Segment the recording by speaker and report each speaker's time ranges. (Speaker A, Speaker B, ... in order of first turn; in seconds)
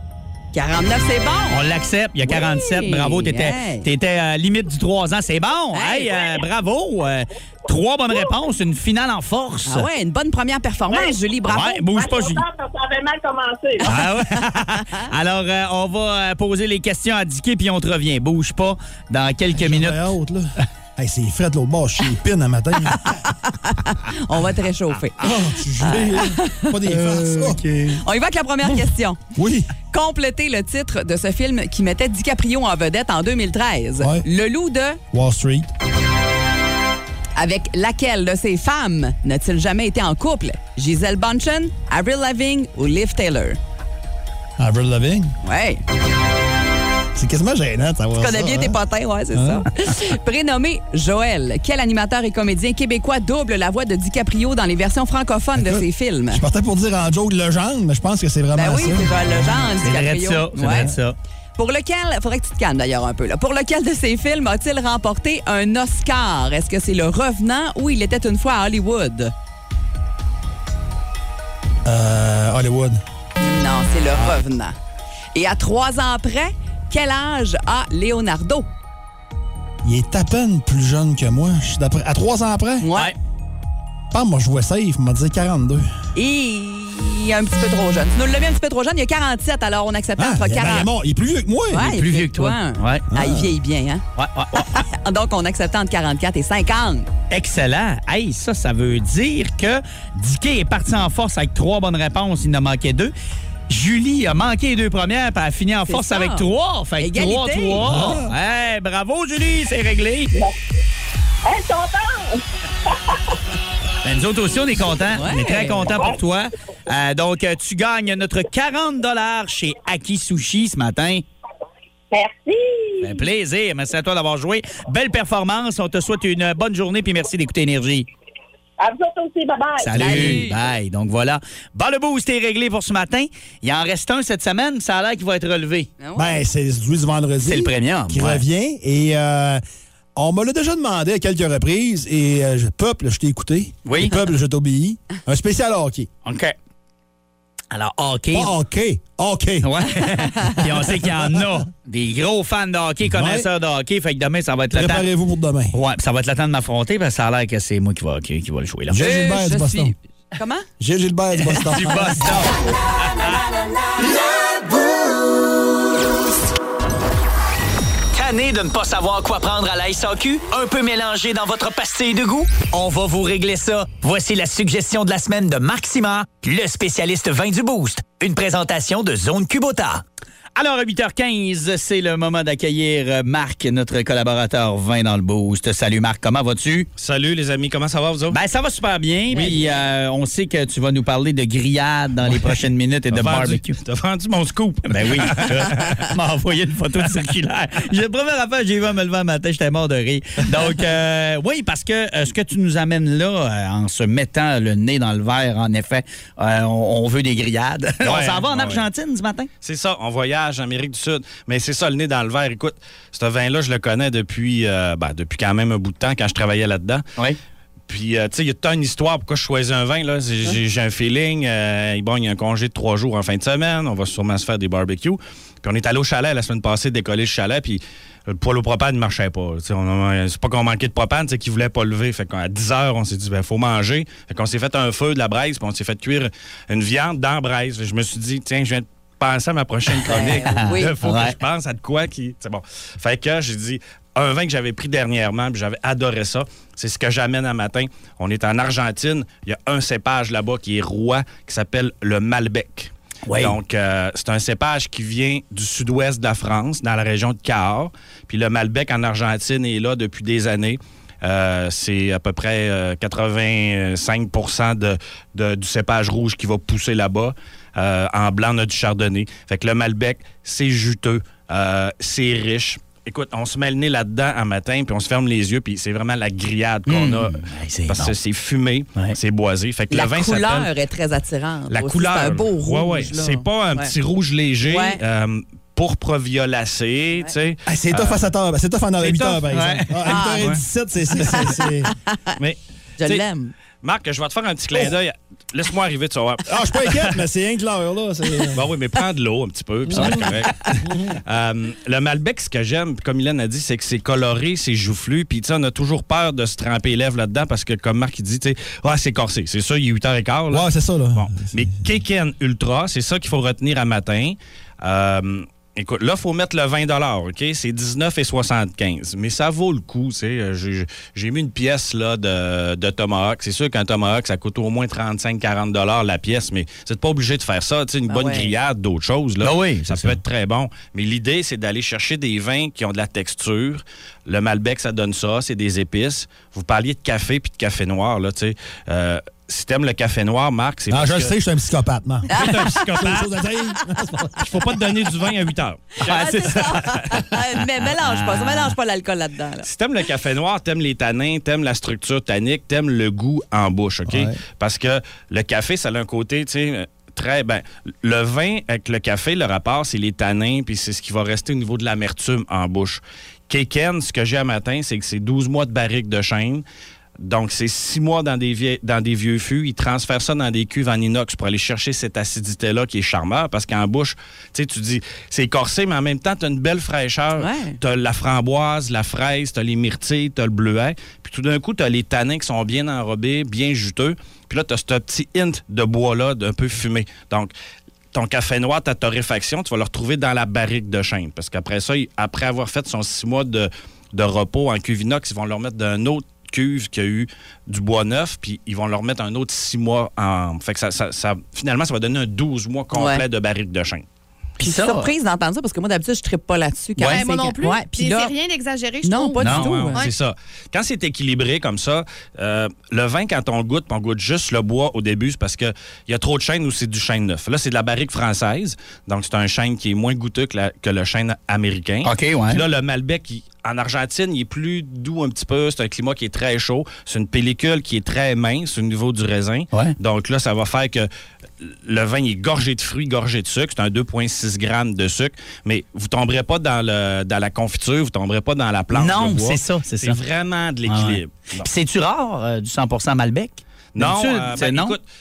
Speaker A: 0.5-1.6, 2.3-3.9, 5.7-6.2, 9.7-11.8, 13.8-14.1, 14.8-15.1, 22.9-27.2, 28.0-29.2, 29.9-35.0, 37.4-43.6, 45.4-45.8, 48.2-56.4, 58.5-60.9, 61.6-69.3, 73.4-74.8, 75.3-78.7, 82.8-83.1, 86.1-90.9, 91.7-94.0, 94.5-97.1, 105.9-106.5, 107.0-107.9, 115.2-115.9, 130.0-130.6, 136.0-136.4, 159.0-160.7, 240.1-240.9, 279.9-283.9, 284.6-285.0, 290.1-290.6, 291.1-292.2, 293.0-293.5, 328.1-328.5, 342.3-342.8, 346.1-349.7, 377.4-377.8, 402.9-403.2, 404.6-408.3, 409.0-410.0
Speaker B: 1.5-9.9, 11.5-12.4, 13.8-20.1, 59.8-61.1, 91.9-93.0, 94.2-94.7, 97.3-103.1, 103.7-110.3, 114.0-121.2, 123.0-128.1, 129.8-135.9, 137.4-138.4, 143.9-144.2, 146.2-146.6, 147.7-148.5, 149.6-155.1, 155.7-159.1, 161.4-162.5, 180.6-186.9, 188.3-193.8, 194.9-209.5, 240.0-241.4, 253.3-253.6, 276.9-278.1, 289.5-290.0, 329.4-330.2, 348.0-348.8, 404.6-405.1, 407.0-407.2, 409.4-409.7, 422.0-422.6, 438.9-440.2, 440.9-445.0
Speaker C: 11.9-13.9, 111.4-113.0, 122.1-123.2, 128.8-130.3
Speaker D: 19.5-23.0, 25.2-27.6, 29.4-29.7, 34.0-34.3, 35.1-35.7, 44.6-45.3, 47.1-48.8, 49.3-49.6, 55.6-59.1, 71.8-73.0, 79.8-82.9, 84.1-85.9, 90.2-92.0, 93.1-93.5, 107.8-108.3, 136.2-139.6, 140.2-146.1, 148.3-149.9, 150.8-151.5, 153.0-153.5, 154.7-155.8, 158.9-159.9, 160.8-162.5, 287.6-291.9, 296.5-298.6, 299.9-300.2, 310.5-311.7, 340.9-345.0, 354.1-354.4
Speaker E: 168.1-180.0
Speaker F: 187.0-188.4, 192.3-192.5, 193.1-196.1, 208.0-208.9, 209.6-217.1, 217.9-280.7, 281.7-288.2, 289.0-289.4, 290.4-290.6, 292.4-293.3, 293.8-297.2, 298.5-341.3, 342.3-343.4, 344.4-347.2, 349.6-366.6, 367.2-387.5, 388.1-404.0, 409.5-431.1, 431.6-441.7, 443.9-445.0
Speaker G: 407.1-410.1